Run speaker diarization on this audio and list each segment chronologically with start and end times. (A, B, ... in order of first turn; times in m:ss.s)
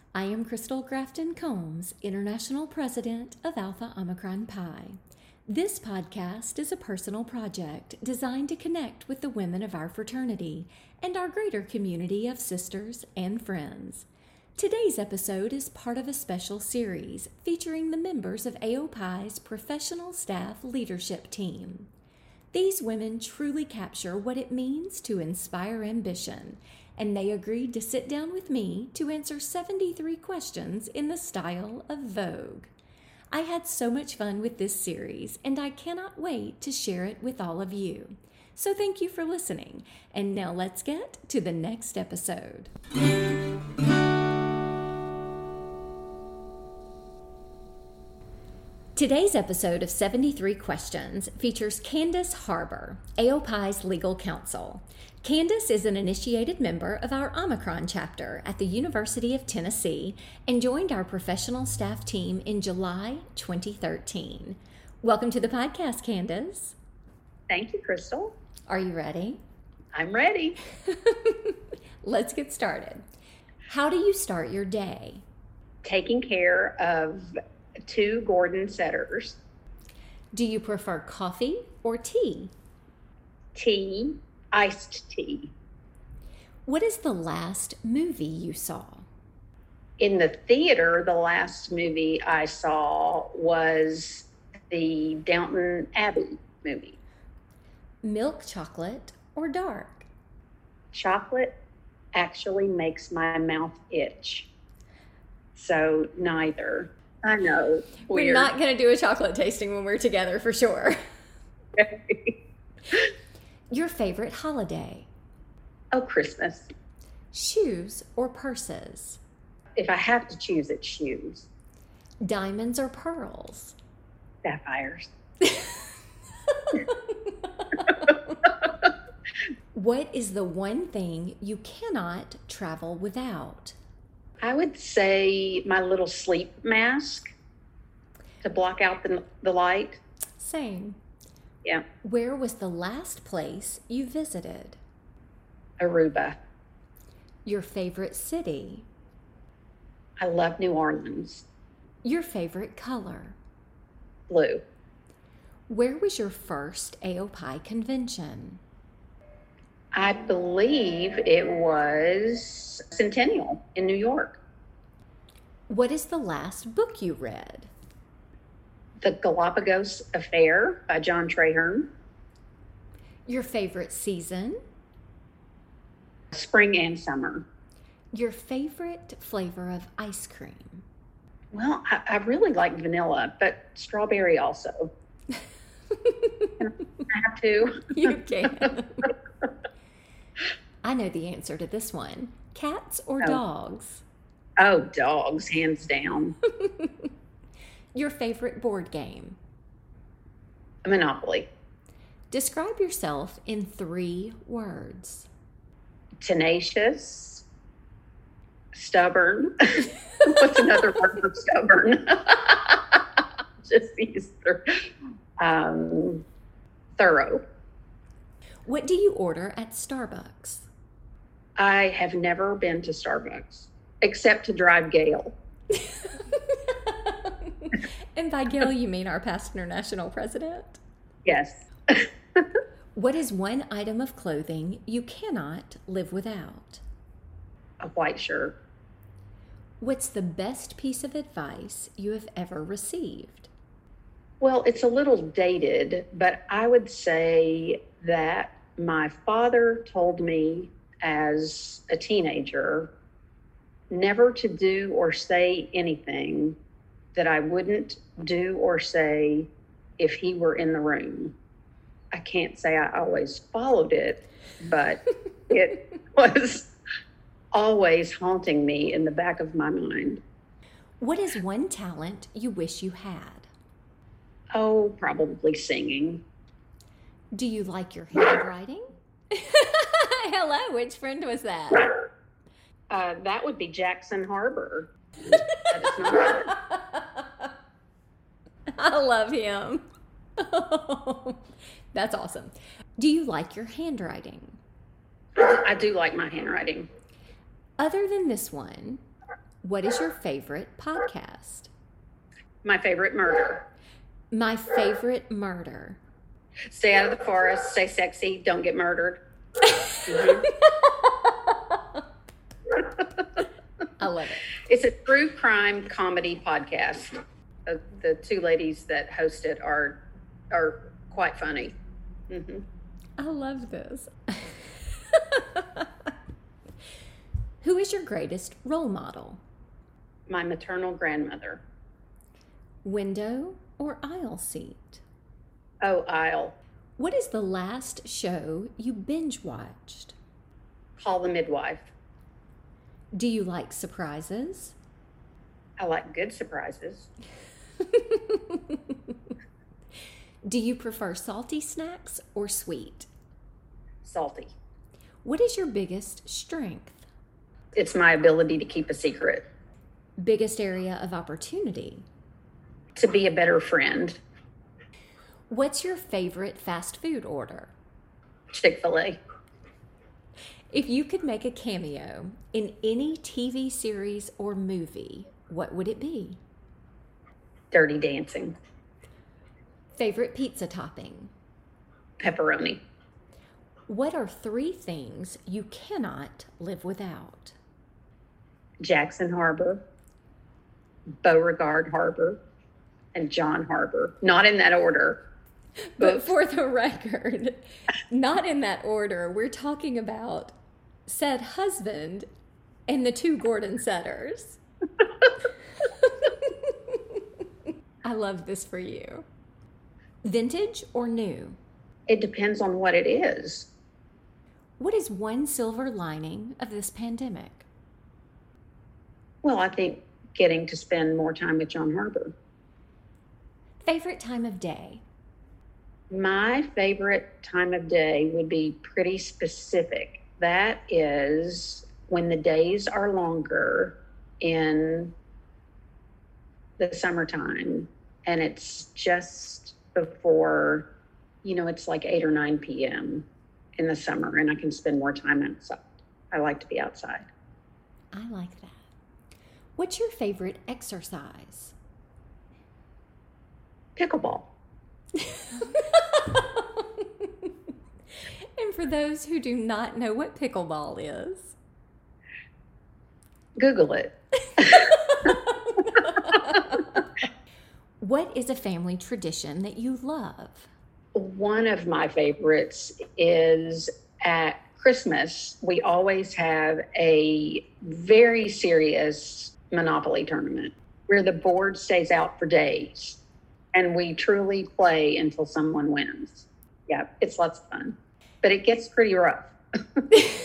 0:00.1-0:21.9 A
0:22.5-0:32.7 A
0:33.3-0:42.7 A
0:49.0-1:06.8 A
1:07.5-1:08.4 B
1:08.7-1:09.4 A
1:09.9-1:10.6 B
1:10.9-1:13.0 A
1:13.7-1:15.2 A
1:15.8-1:17.3 B
1:17.9-1:19.4 B
1:20.3-1:22.5 A
1:23.6-1:25.5 B
1:26.7-1:29.1 A
1:30.0-1:37.0 B
1:38.0-1:40.1 A
1:40.9-1:41.6 B
1:42.1-1:44.5 B
1:45.6-1:48.5 B
1:48.1-1:51.0 A
1:51.8-1:52.3 B
1:53.7-1:55.1 A
1:55.9-1:56.7 B
1:57.3-1:59.2 A
1:59.8-2:01.5 B
2:02.2-2:03.8 A
2:04.4-2:05.1 B
2:06.6-2:08.2 A
2:09.7-2:13.8 A
2:14.4-2:17.3 B
2:18.4-2:20.0 B
2:20.4-2:21.0 A
2:22.0-2:24.8 A
2:25.8-2:26.4 B
2:27.4-2:28.9 A
2:30.2-2:31.5 B
2:32.0-2:33.4 A
2:34.3-2:34.6 B
2:35.7-2:38.6 A
2:39.9-2:44.4 B
2:45.7-2:47.7 A
2:49.0-2:51.9 B
2:53.3-2:54.6 A
2:56.3-2:57.4 B
2:58.1-3:00.8 A
3:01.5-3:04.9 B
3:06.0-3:06.5 A
3:06.6-3:08.2 B
3:07.9-3:09.1 A
3:10.8-3:14.0 A
3:14.6-3:16.4 B
3:16.6-3:17.1 A
3:17.9-3:19.4 A
3:20.8-3:21.5 B
3:22.3-3:25.3 A
3:26.2-3:27.4 B
3:28.7-3:34.6 B
3:35.4-3:36.2 B
3:37.0-3:37.4 B
3:38.7-3:40.7 A
3:41.6-3:45.4 B
3:46.7-3:50.8 A
3:51.2-3:52.4 B
3:53.0-3:56.8 A
3:57.8-3:58.6 B
3:59.8-4:03.5 A
4:04.4-4:12.9 B
4:13.9-4:16.6 B
4:17.2-4:21.4 B
4:22.1-4:26.7 B
4:27.5-4:30.2 B
4:31.0-4:33.5 A
4:34.5-4:36.2 B
4:37.3-4:41.9 A
4:42.9-4:44.9 B
4:45.7-4:46.5 B
4:48.7-4:49.9 A
4:50.4-4:51.4 A
4:51.9-4:54.6 A
4:55.4-4:56.9 B
4:57.8-4:59.0 A
4:59.6-5:01.7 A
5:02.6-5:03.7 B
5:04.3-5:06.0 A
5:06.7-5:09.2 B
5:10.1-5:10.5 B
5:14.0-5:14.5 A
5:14.6-5:20.0 B
5:20.5-5:21.8 B
5:22.3-5:22.7 B
5:23.2-5:25.9 A
5:27.6-5:29.4 A
5:30.3-5:31.6 B
5:32.8-5:35.0 A
5:35.8-5:36.6 B
5:37.0-5:40.2 A
5:41.0-5:41.9 B
5:43.1-5:44.8 A
5:45.8-5:47.1 B
5:48.0-5:48.8 A
5:50.4-5:53.1 A
5:54.0-5:54.5 B
5:55.2-5:57.0 A
5:57.8-5:59.4 B
6:00.2-6:02.0 A
6:03.0-6:04.2 B
6:05.5-6:07.7 A
6:08.5-6:09.2 B
6:10.7-6:16.4 A
6:17.7-6:18.6 B
6:20.0-6:21.3 A
6:22.2-6:22.8 B
6:23.9-6:27.6 A
6:28.8-6:29.8 B
6:31.2-6:32.4 B
6:33.1-6:35.2 B
6:35.9-6:40.5 A
6:36.0-6:36.3 B
6:41.1-6:42.3 A
6:42.9-6:44.6 A
6:46.1-6:47.0 A
6:48.0-6:49.2 A
6:50.2-6:51.6 A
6:52.1-6:53.7 B
6:54.8-6:57.7 A
6:59.4-7:02.3 B
7:03.8-7:05.0 A
7:06.1-7:15.1 B
7:16.8-7:20.9 B
7:21.4-7:23.3 B
7:23.8-7:27.3 B
7:28.1-7:28.8 A
7:29.8-7:31.8 A
7:34.0-7:34.5 B
7:35.4-7:36.8 A
7:38.6-7:41.6 A
7:43.6-7:44.9 B
7:44.7-7:47.0 A
7:48.0-7:50.7 A
7:51.1-8:03.2 B
8:03.7-8:10.1 B